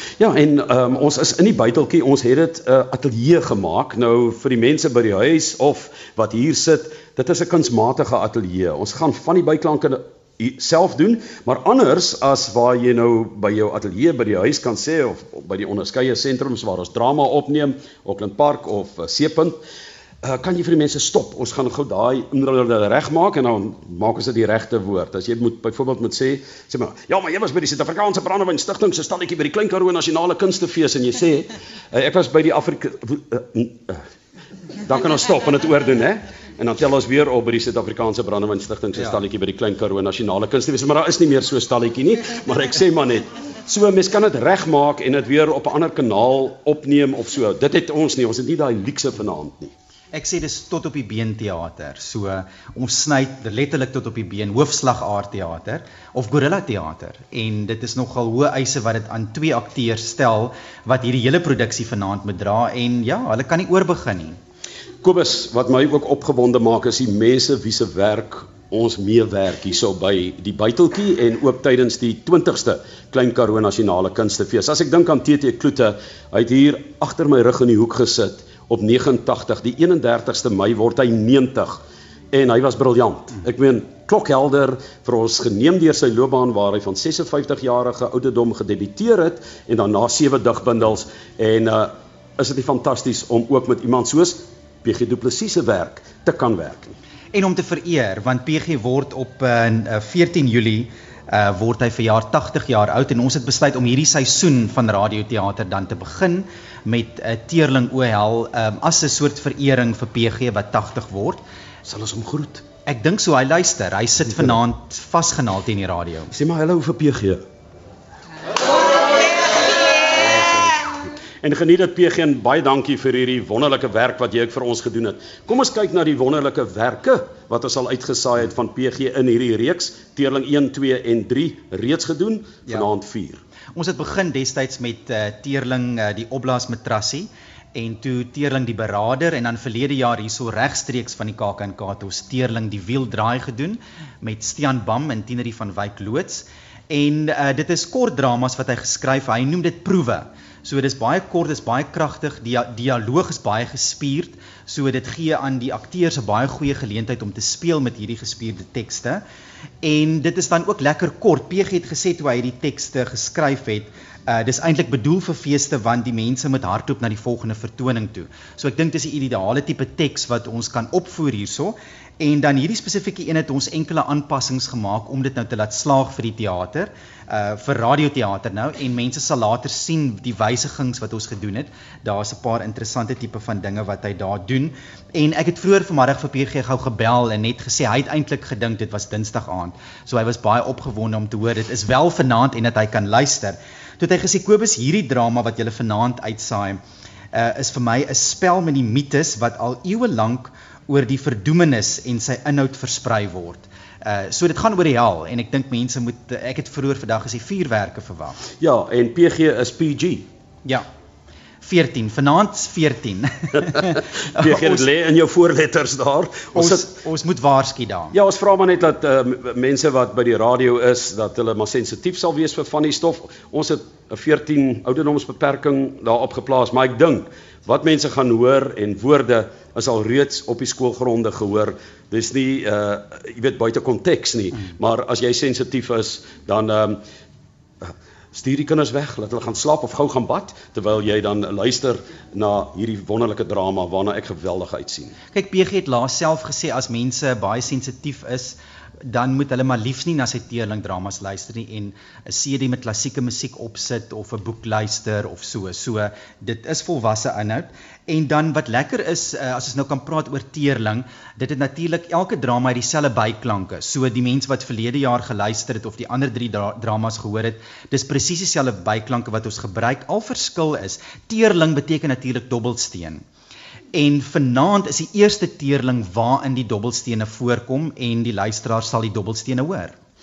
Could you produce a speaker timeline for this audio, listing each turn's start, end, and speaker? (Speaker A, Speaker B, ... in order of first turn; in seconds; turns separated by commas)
Speaker A: 0.2-19.6, Speaker A: 20.2-34.0, Speaker A: 34.8-49.7, Speaker B: 50.1-64.4, Speaker A: 65.0-81.8, Speaker A: 82.3-97.0, Speaker B: 97.3-111.4, Speaker A: 111.8-112.6, Speaker B: 112.8-116.3, Speaker A: 116.3-117.4, Speaker A: 120.1-133.4, Speaker B: 133.7-159.2, Speaker B: 159.8-196.8, Speaker B: 197.3-208.4, Speaker A: 208.6-210.3, Speaker B: 211.6-214.8, Speaker A: 213.6-216.9, Speaker B: 216.6-218.2, Speaker A: 218.1-237.0, Speaker A: 237.8-245.2, Speaker B: 245.3-273.2, Speaker B: 273.9-280.0